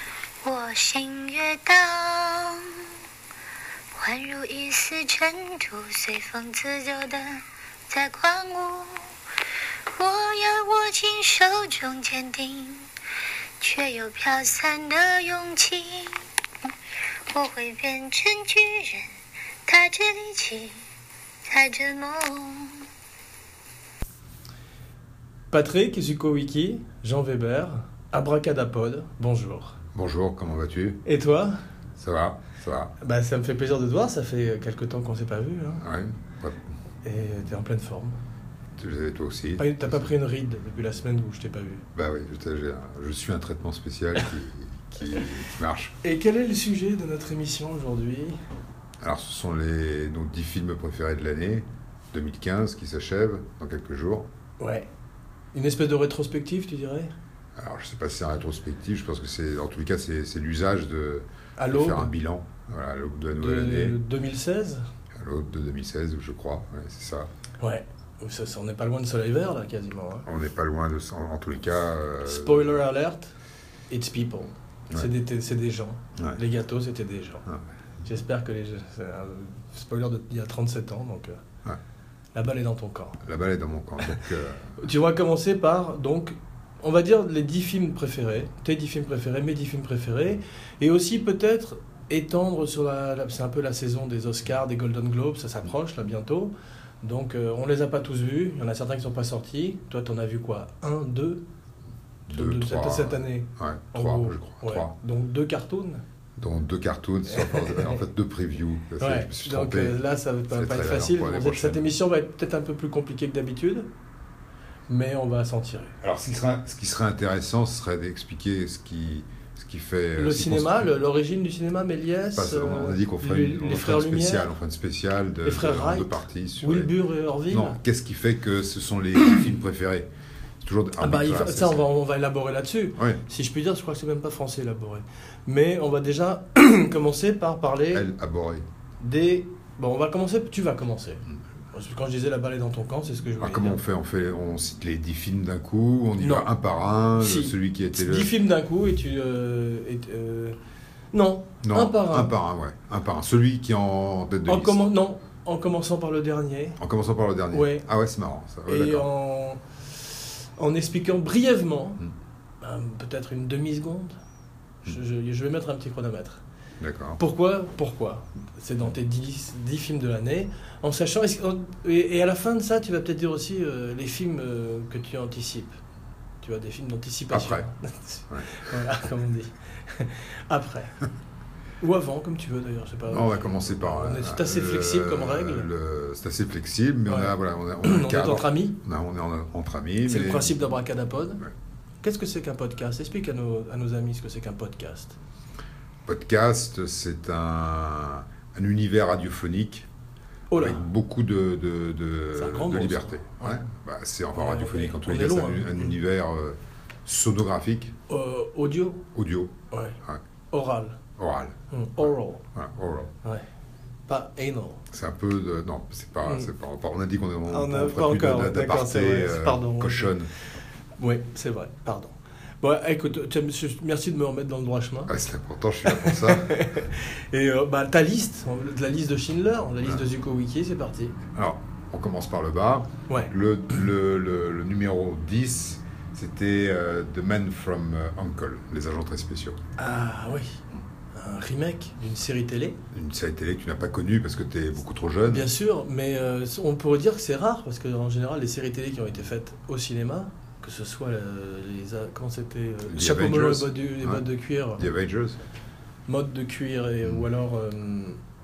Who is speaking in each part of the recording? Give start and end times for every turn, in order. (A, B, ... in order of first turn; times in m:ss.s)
0:00.4-0:02.9 A
0:03.9-0:09.1 A
0:09.9-0:12.9 A
0:13.6-0:16.2 A
0:17.3-0:19.1 A
0:19.7-0:20.8 A
0:21.5-0:22.8 A
0:25.5-0:29.8 B
0:29.9-0:31.0 C
0:31.0-0:31.6 B
0:32.0-0:32.9 C
0:33.0-0:35.9 B
0:35.8-0:36.6 C
0:37.0-0:38.2 B
0:38.8-0:40.1 C
0:39.6-0:41.8 B
0:42.0-0:45.9 C
0:46.0-0:48.4 B
0:49.0-0:54.3 C
0:54.6-0:54.9 B
0:55.5-0:57.1 B
0:57.6-1:04.0 C
1:01.6-1:02.1 B
1:03.4-1:04.8 B
1:05.2-1:07.3 C
1:07.6-1:10.3 B
1:10.3-1:12.8 C
1:12.2-1:13.3 B
1:13.9-1:17.5 B
1:18.0-1:21.4 B
1:22.3-1:23.2 B
1:23.2-1:24.8 C
1:24.8-1:41.4 B
1:42.3-1:45.0 C
1:42.3-1:46.0 B
1:46.4-1:50.0 C
1:47.3-1:48.0 B
1:49.0-1:53.9 B
1:50.5-1:51.9 C
1:54.9-1:56.0 B
1:56.0-2:00.9 C
2:00.2-2:04.5 B
2:02.4-2:07.0 C
2:05.5-2:07.8 B
2:07.5-2:10.1 C
2:10.6-2:11.9 C
2:11.0-2:18.1 B
2:17.9-2:18.7 C
2:19.0-2:23.8 B
2:23.4-2:28.3 C
2:26.2-2:26.5 B
2:27.2-2:30.6 B
2:31.1-2:32.3 B
2:31.6-2:34.8 C
2:34.5-2:36.8 B
2:36.8-2:39.1 C
2:37.5-2:37.9 B
2:38.7-2:42.0 B
2:42.6-2:44.2 B
2:44.8-2:46.4 B
2:46.8-2:47.2 C
2:47.2-2:55.8 B
2:56.4-3:00.9 B
2:57.3-2:57.6 C
2:58.3-2:58.7 C
3:01.8-3:05.7 B
3:03.1-3:10.6 C
3:07.1-3:08.8 B
3:10.1-3:11.4 B
3:12.0-3:15.2 B
3:16.1-3:19.9 C
3:20.5-3:20.8 B
3:20.6-3:28.0 C
3:22.4-3:23.7 B
3:24.3-3:26.0 B
3:28.1-3:29.0 B
3:29.1-3:30.2 C
3:29.7-3:30.0 B
3:30.5-3:31.0 B
3:31.2-3:33.1 C
3:31.7-3:32.4 B
3:34.1-3:34.8 B
3:34.9-3:40.3 C
3:36.2-3:36.5 B
3:37.5-3:40.1 B
3:41.0-3:45.1 B
3:45.1-3:46.7 C
3:45.8-3:51.2 B
3:51.4-3:59.6 C
3:59.8-4:00.6 B
4:01.1-4:02.8 B
4:02.9-4:05.5 C
4:05.3-4:14.8 B
4:12.9-4:15.4 C
4:16.1-4:18.2 B